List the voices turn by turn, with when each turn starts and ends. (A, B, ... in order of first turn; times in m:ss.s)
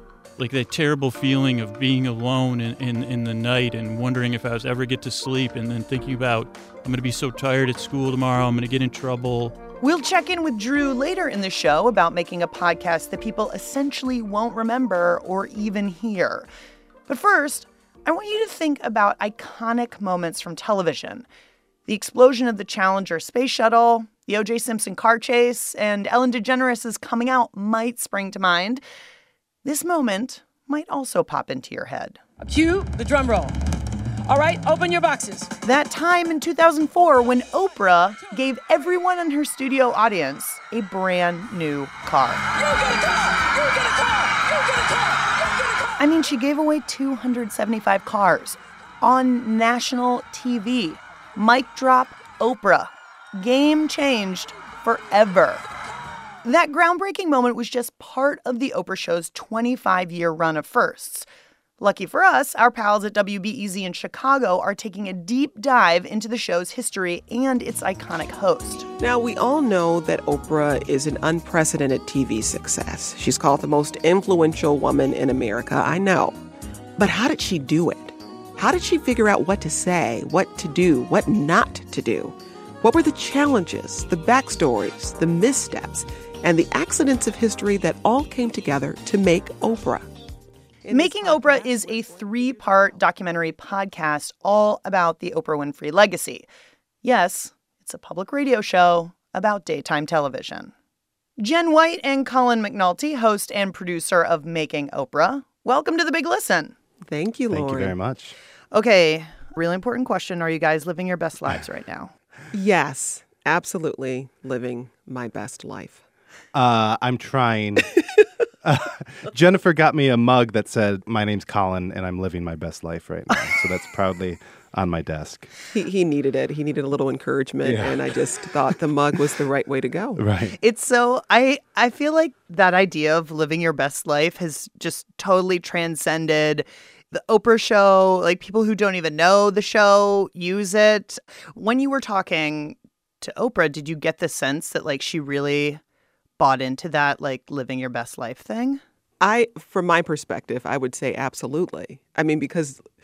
0:00.4-0:09.6 A
0:09.8-0:16.5 B
0:17.1-0:21.3 B
0:21.9-0:28.8 B
0:29.6-0:32.2 B
0:32.4-0:33.6 C
0:34.2-0:35.5 C
0:35.6-0:42.4 B
0:42.5-0:45.9 C
0:46.0-0:55.6 B
0:56.4-1:01.3 B
1:01.8-1:08.9 B
1:09.0-1:16.4 D
1:17.0-1:30.1 D
1:30.8-1:33.0 D
1:30.9-1:36.5 B
1:37.0-1:40.7 B
1:41.4-1:46.7 B
1:47.0-1:48.0 D
1:47.5-1:48.4 E
1:48.7-1:52.1 B
1:52.5-1:56.0 D
1:56.5-1:57.9 E
1:58.6-2:05.5 E
2:05.7-2:10.2 D
2:07.6-2:08.0 E
2:10.2-2:10.6 E
2:10.6-2:25.8 B
2:26.4-2:28.8 B
2:29.2-2:32.8 D